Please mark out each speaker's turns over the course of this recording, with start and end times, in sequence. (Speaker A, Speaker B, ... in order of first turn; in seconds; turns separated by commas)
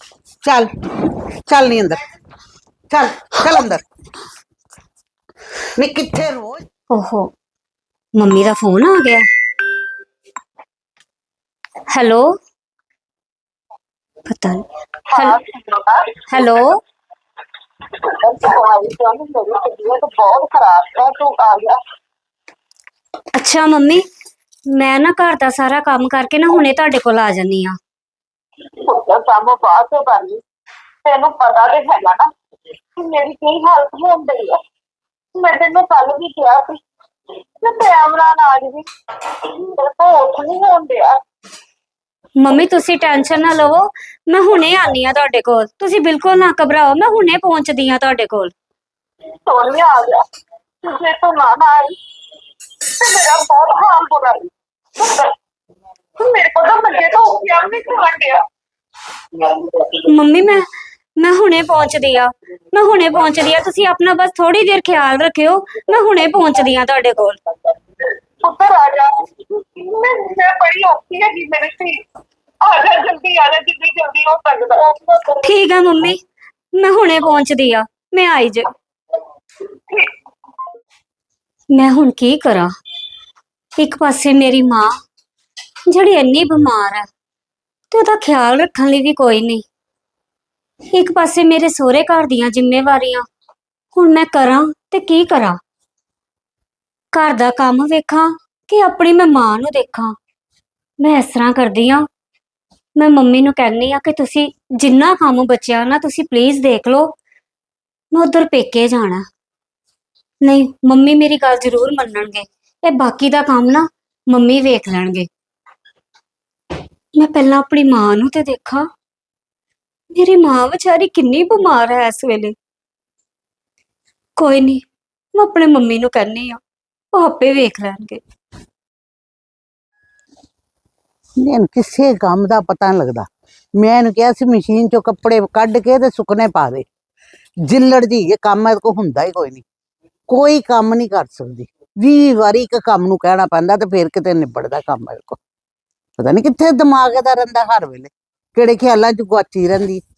Speaker A: 0.4-0.7, Speaker A: 1.5-2.0, Speaker A: 2.9-3.8, Speaker A: 5.8-6.6, Speaker B: 6.9-7.3, Speaker B: 8.2-9.3, Speaker B: 11.9-12.4, Speaker B: 14.2-15.4, Speaker C: 15.1-16.5, Speaker B: 16.3-16.8, Speaker C: 17.9-21.8, Speaker B: 23.4-24.1, Speaker B: 24.7-27.8, Speaker C: 28.9-30.4, Speaker C: 31.1-32.3, Speaker C: 33.0-34.6, Speaker C: 35.4-36.8, Speaker C: 37.6-41.2, Speaker B: 42.4-48.5, Speaker C: 49.5-50.2, Speaker C: 50.8-52.0, Speaker C: 52.9-55.3, Speaker C: 56.2-58.4, Speaker C: 59.3-60.0, Speaker B: 60.0-60.7, Speaker B: 61.2-67.4, Speaker C: 68.4-72.0, Speaker C: 72.6-75.5, Speaker B: 75.4-76.2, Speaker B: 76.8-78.7, Speaker B: 81.7-82.7, Speaker B: 83.8-84.9, Speaker B: 85.9-87.1, Speaker B: 87.9-89.7, Speaker B: 90.9-93.3, Speaker B: 93.9-95.6, Speaker B: 97.1-100.2, Speaker B: 101.0-102.1, Speaker B: 103.0-107.2, Speaker B: 108.1-109.3, Speaker B: 110.4-115.3, Speaker B: 117.2-118.9, Speaker B: 120.1-122.5, Speaker B: 124.4-124.8, Speaker B: 125.3-126.6, Speaker B: 127.1-128.2, Speaker A: 131.4-136.9, Speaker A: 137.7-139.7, Speaker A: 140.3-145.4, Speaker A: 146.2-150.0